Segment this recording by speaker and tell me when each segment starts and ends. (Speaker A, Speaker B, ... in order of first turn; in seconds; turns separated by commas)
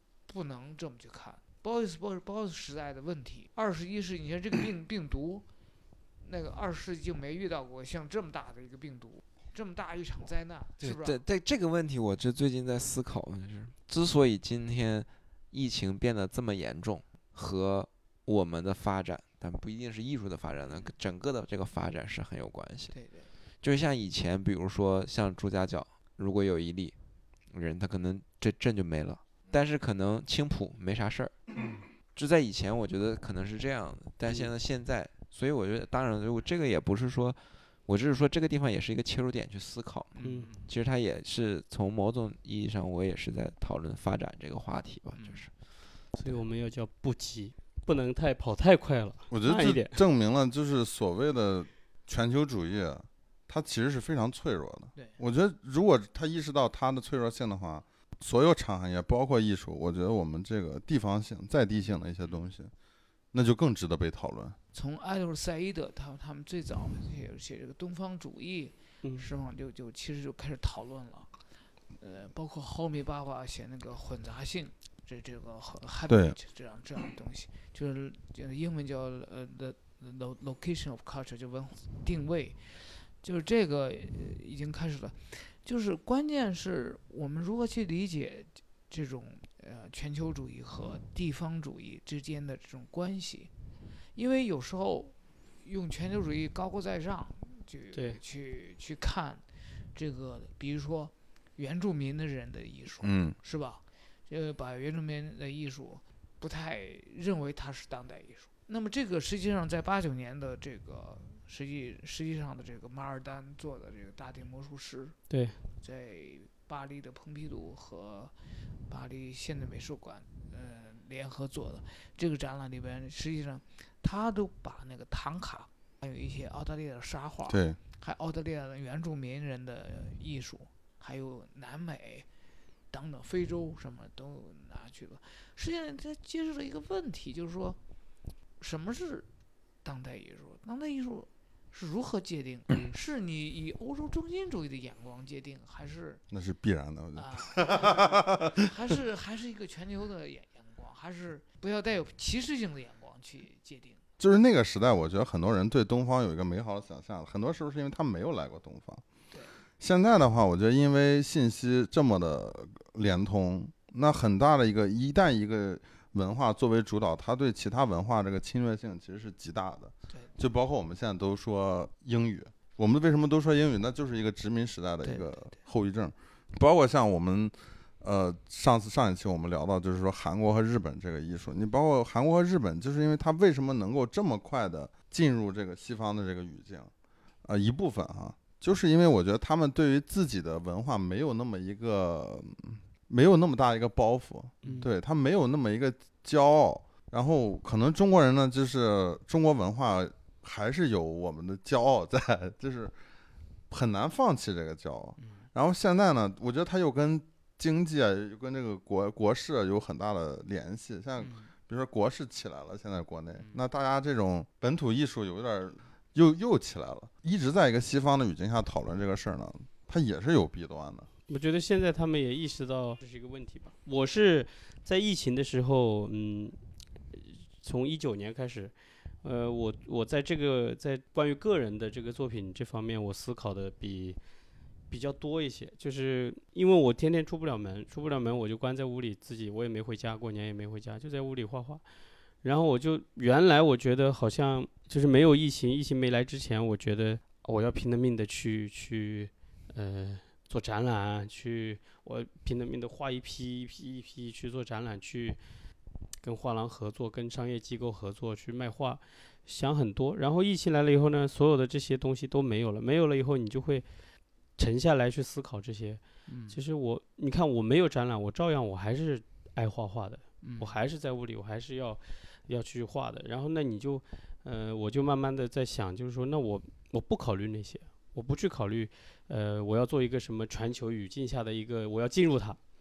Speaker A: 0.3-5.5, Speaker A: 6.2-11.2, Speaker B: 10.8-22.9, Speaker A: 22.9-23.3, Speaker B: 23.6-27.0, Speaker B: 27.5-31.4, Speaker B: 32.1-45.5, Speaker A: 40.1-40.7, Speaker C: 40.2-40.5, Speaker A: 45.2-45.5, Speaker C: 46.1-50.0, Speaker D: 49.3-62.7, Speaker D: 63.3-64.6, Speaker A: 64.7-71.3, Speaker A: 72.0-93.5, Speaker D: 76.1-76.4, Speaker A: 94.2-115.2, Speaker C: 97.9-98.2, Speaker D: 103.0-103.4, Speaker C: 115.3-115.6, Speaker A: 115.8-118.3, Speaker A: 118.9-132.3, Speaker D: 127.5-127.8, Speaker A: 132.9-137.8, Speaker A: 138.6-139.3, Speaker A: 139.8-146.2, Speaker D: 146.3-148.6, Speaker A: 147.2-154.0, Speaker D: 154.2-159.0, Speaker D: 159.8-186.9, Speaker A: 175.0-175.6, Speaker D: 187.4-202.9, Speaker C: 194.6-194.9, Speaker D: 203.7-221.1, Speaker A: 205.2-205.5, Speaker A: 211.2-211.5, Speaker A: 213.4-213.6, Speaker C: 221.3-234.2, Speaker C: 234.9-241.8, Speaker C: 242.4-255.4, Speaker C: 256.2-263.9, Speaker C: 264.6-282.6, Speaker A: 266.3-266.6, Speaker A: 270.4-270.7